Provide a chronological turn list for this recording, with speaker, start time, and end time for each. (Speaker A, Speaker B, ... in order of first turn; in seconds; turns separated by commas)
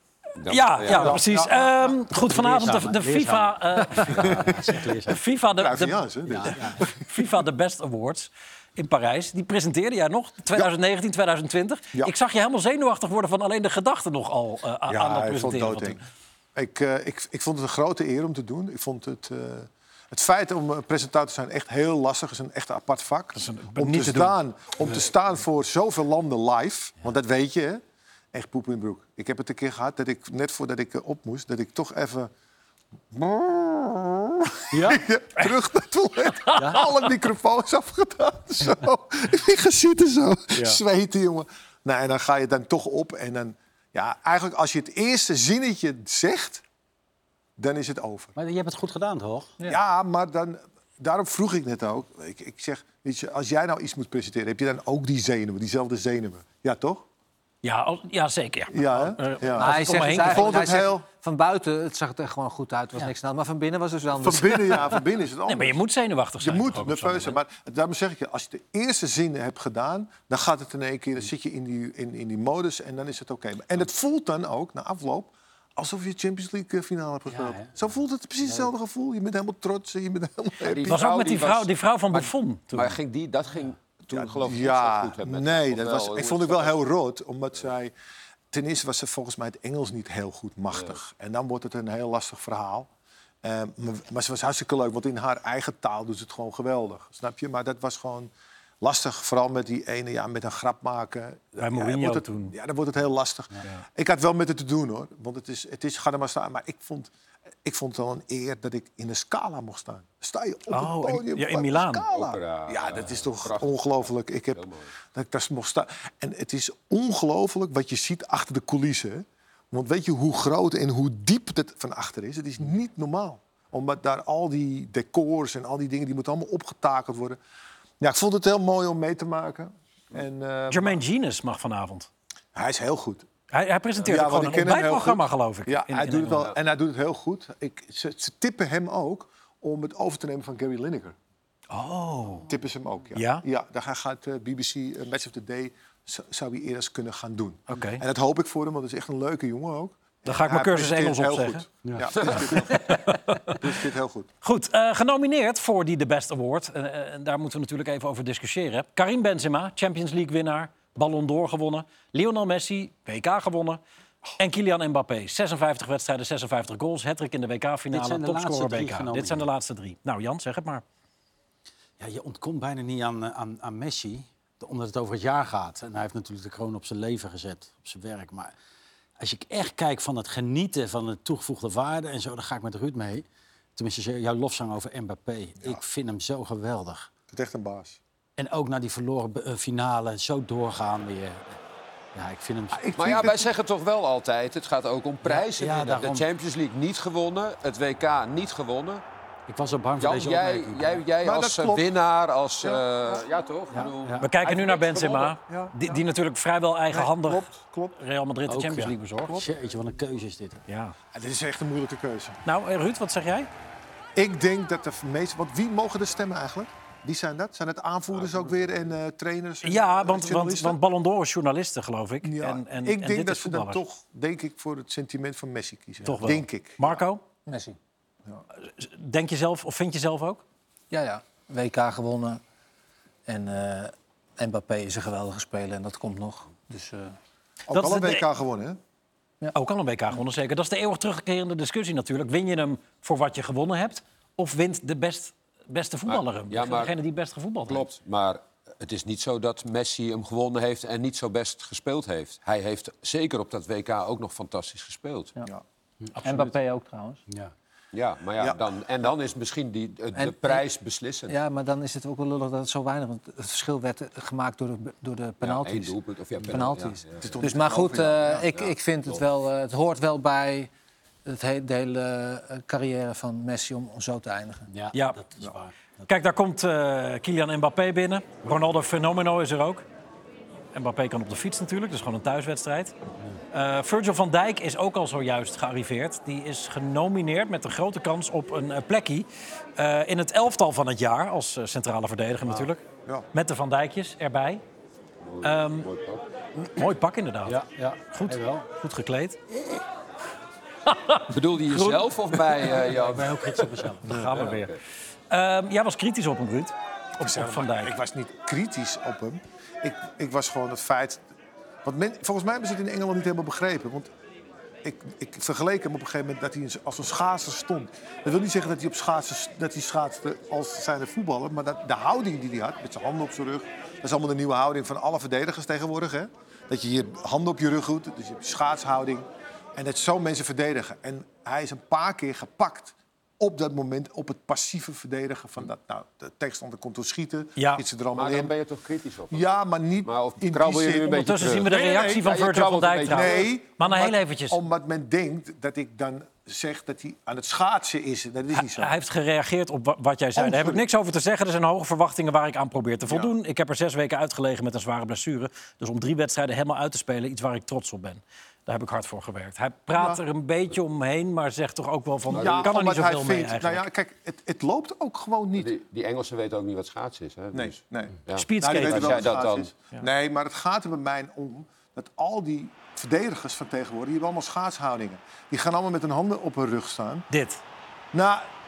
Speaker A: 0.4-1.2, Speaker B: 0.5-4.5, Speaker C: 0.8-1.9, Speaker D: 2.0-5.2, Speaker C: 4.2-4.8, Speaker B: 5.0-16.0, Speaker C: 5.5-7.3, Speaker D: 6.2-6.9, Speaker C: 14.9-16.0, Speaker C: 16.5-27.8, Speaker B: 23.4-24.4, Speaker C: 28.3-32.3, Speaker C: 33.1-46.6, Speaker D: 34.7-35.0, Speaker B: 36.3-36.8, Speaker D: 36.6-36.9, Speaker C: 47.6-48.3, Speaker D: 48.4-49.5, Speaker C: 49.6-57.0, Speaker B: 57.6-60.6, Speaker C: 58.7-61.0, Speaker E: 59.6-65.0, Speaker C: 64.1-65.8, Speaker B: 65.5-67.4, Speaker C: 66.4-81.0, Speaker D: 77.3-77.8, Speaker A: 80.6-86.8, Speaker B: 80.9-83.0, Speaker C: 84.1-87.9, Speaker C: 88.5-92.9, Speaker C: 93.4-107.1, Speaker B: 101.6-102.5, Speaker C: 107.6-127.4, Speaker B: 110.7-112.0, Speaker A: 112.1-114.9, Speaker C: 128.0-131.0, Speaker B: 130.7-132.1, Speaker C: 132.5-133.2, Speaker B: 133.5-136.5, Speaker C: 134.0-141.2, Speaker B: 141.7-142.5, Speaker C: 142.5-154.3, Speaker B: 143.1-143.4, Speaker B: 147.7-148.0, Speaker B: 150.2-151.6, Speaker D: 151.8-152.5, Speaker B: 152.2-153.6, Speaker B: 154.4-163.8, Speaker B: 164.4-170.8, Speaker D: 167.9-169.5, Speaker D: 172.0-178.5, Speaker D: 179.2-183.2, Speaker D: 183.8-187.1, Speaker C: 187.3-188.0, Speaker D: 188.4-191.6, Speaker D: 192.1-192.9, Speaker C: 192.7-193.5, Speaker A: 192.9-199.0, Speaker D: 195.2-196.3, Speaker D: 199.5-201.0, Speaker A: 200.0-205.4, Speaker C: 201.2-201.9, Speaker C: 202.6-203.2, Speaker D: 203.7-204.3, Speaker B: 204.2-209.4, Speaker C: 205.5-206.0, Speaker C: 206.9-207.9, Speaker D: 208.5-210.6, Speaker B: 210.7-210.9, Speaker C: 211.1-212.4, Speaker B: 212.4-213.5, Speaker C: 214.1-220.8, Speaker B: 219.6-223.8, Speaker C: 222.2-227.0, Speaker B: 226.0-227.2, Speaker E: 227.4-227.8, Speaker B: 228.6-230.4, Speaker E: 230.9-232.4, Speaker E: 233.2-237.2, Speaker C: 237.7-238.8, Speaker B: 237.7-238.3, Speaker B: 239.5-247.9, Speaker A: 246.1-246.9, Speaker A: 247.7-255.3, Speaker E: 256.2-257.2, Speaker D: 257.3-257.5, Speaker A: 257.9-261.4, Speaker E: 260.1-260.6, Speaker E: 261.3-270.7, Speaker A: 265.4-267.4, Speaker C: 267.2-268.5, Speaker A: 268.5-269.2, Speaker E: 271.2-274.7, Speaker D: 274.7-275.7, Speaker B: 274.9-275.2, Speaker B: 276.1-279.8, Speaker B: 280.7-282.9, Speaker B: 283.5-292.8, Speaker B: 293.3-294.6, Speaker A: 295.2-296.2, Speaker B: 295.4-295.9, Speaker B: 296.7-297.6, Speaker D: 297.4-298.6, Speaker B: 298.1-299.4, Speaker B: 300.9-302.4, Speaker A: 301.3-304.7, Speaker D: 302.7-304.2, Speaker B: 304.1-304.7, Speaker B: 305.3-307.9, Speaker C: 307.2-311.2, Speaker C: 311.8-314.1, Speaker C: 314.8-338.5, Speaker B: 337.6-337.8, Speaker A: 338.1-339.5, Speaker C: 339.3-342.2, Speaker A: 340.0-343.5, Speaker B: 341.1-344.6, Speaker C: 343.1-348.9, Speaker B: 348.5-363.8, Speaker C: 350.3-350.8, Speaker C: 353.1-353.3, Speaker C: 359.9-360.2, Speaker C: 362.3-365.7, Speaker A: 362.3-362.7, Speaker A: 365.6-369.7, Speaker C: 367.5-377.3, Speaker B: 368.3-369.3, Speaker B: 377.3-377.6, Speaker C: 378.1-378.5